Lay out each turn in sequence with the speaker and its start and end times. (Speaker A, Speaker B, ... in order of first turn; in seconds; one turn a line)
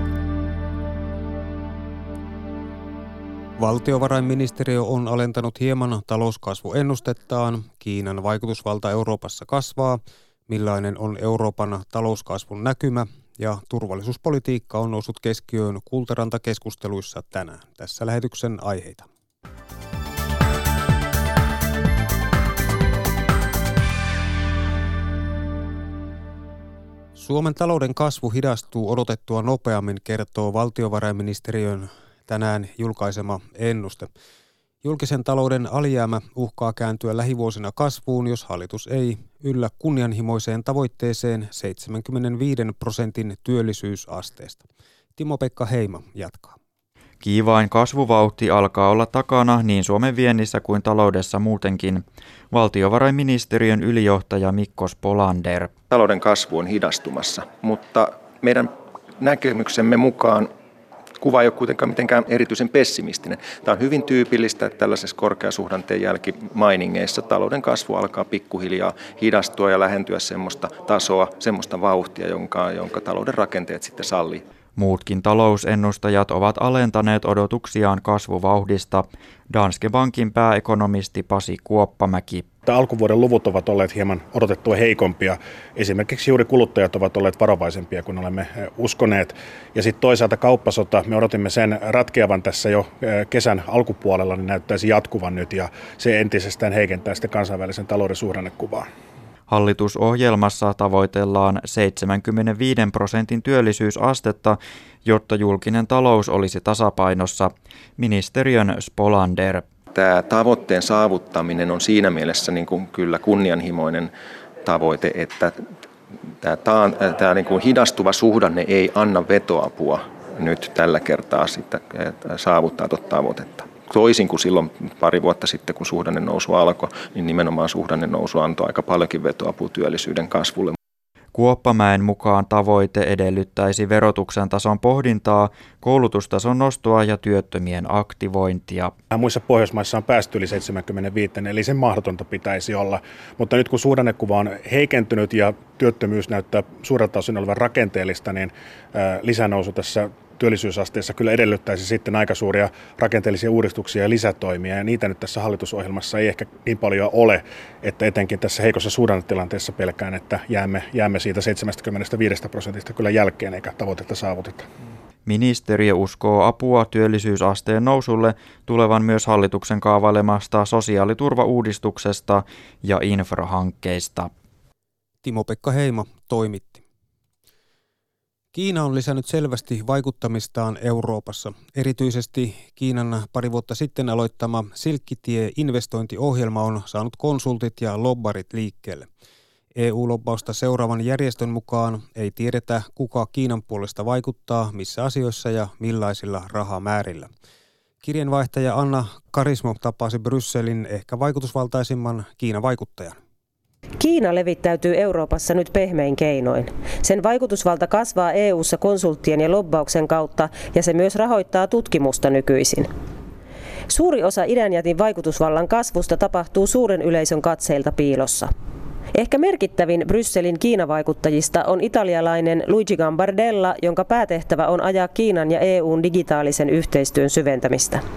Speaker A: 3.6-19.1
Speaker A: 27.2-34.1
Speaker A: 34.8-44.6
Speaker A: 45.2-46.6
Speaker B: 47.2-55.8
Speaker C: 55.9-60.5
Speaker C: 61.2-74.4
Speaker B: 74.8-82.5
Speaker D: 82.7-98.9
Speaker B: 99.5-109.7
Speaker C: 109.9-114.1
Speaker C: 114.6-115.6
Speaker C: 116.4-130.8
Speaker B: 131.3-138.9
Speaker D: 139.1-164.7
Speaker B: 165.3-174.3
Speaker A: 175.2-176.8
Speaker A: 178.5-189.1
Speaker A: 189.8-197.3
Speaker A: 198.0-203.2
Speaker E: 204.0-212.9
Speaker E: 213.9-218.5
Speaker E: 219.1-228.0